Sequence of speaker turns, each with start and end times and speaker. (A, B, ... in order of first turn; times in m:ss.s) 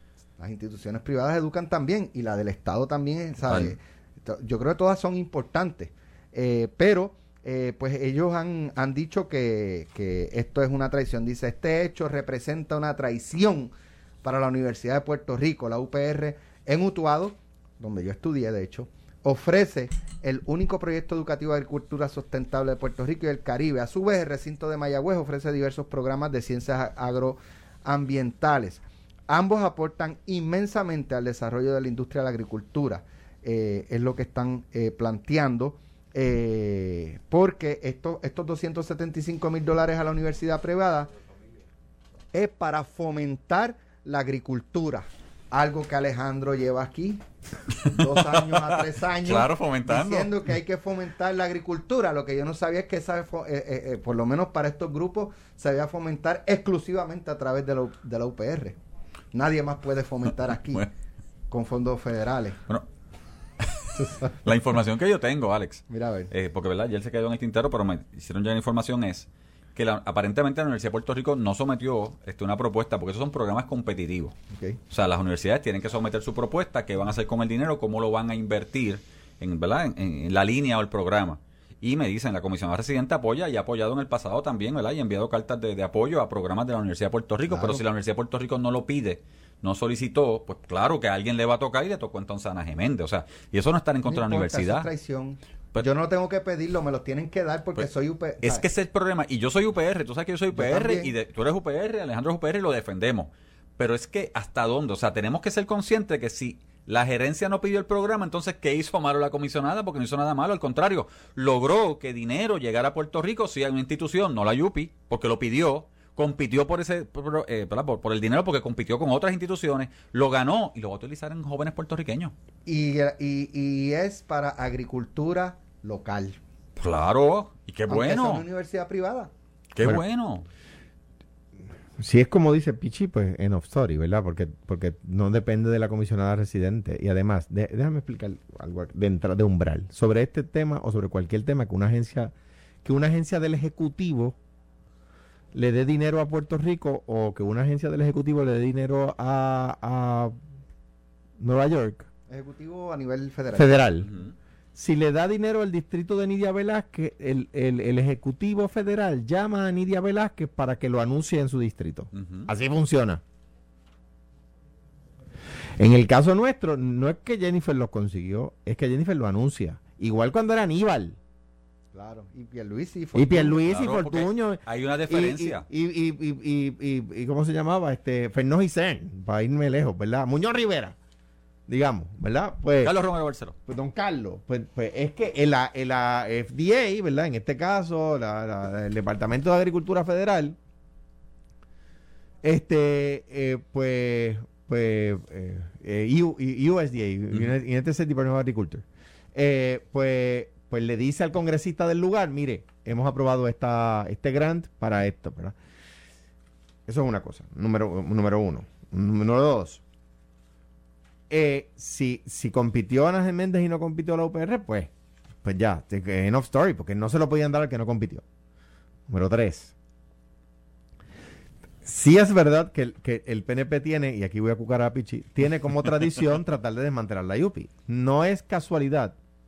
0:00.4-0:41.1 A
0:03.5-0:03.8 B
0:42.3-0:47.2 A
0:47.8-0:50.3 B
0:47.8-0:58.8 A
0:59.3-1:00.8 A
1:01.5-1:02.6 A
1:03.6-1:14.4 B
1:05.9-1:06.3 A
1:14.5-1:14.8 A
1:14.9-1:34.9 B
1:27.5-1:27.8 A
1:34.1-1:38.6 A
1:38.4-2:02.3 B
1:40.5-1:41.1 A
2:02.7-2:06.4 A
2:06.8-2:08.4 B
2:07.9-2:09.3 A
2:09.7-2:10.4 B
2:12.0-2:22.3 C
2:22.8-2:24.4 C
2:25.5-2:30.4 C
2:31.4-2:32.1 C
2:32.3-2:33.8 A
2:33.5-2:34.1 C
2:34.0-2:34.3 B
2:34.8-2:43.2 C
2:42.1-2:42.5 B
2:45.8-2:51.2 C
2:51.9-2:53.6 A
2:53.2-3:01.0 C
2:53.6-2:55.7 B
3:01.7-3:02.9 C
3:02.8-3:03.6 B
3:03.7-3:10.6 C
3:12.4-3:25.6 C
3:26.9-3:29.8 C
3:31.3-3:34.9 C
3:35.4-3:38.2 C
3:39.1-3:39.7 C
3:41.8-3:49.2 C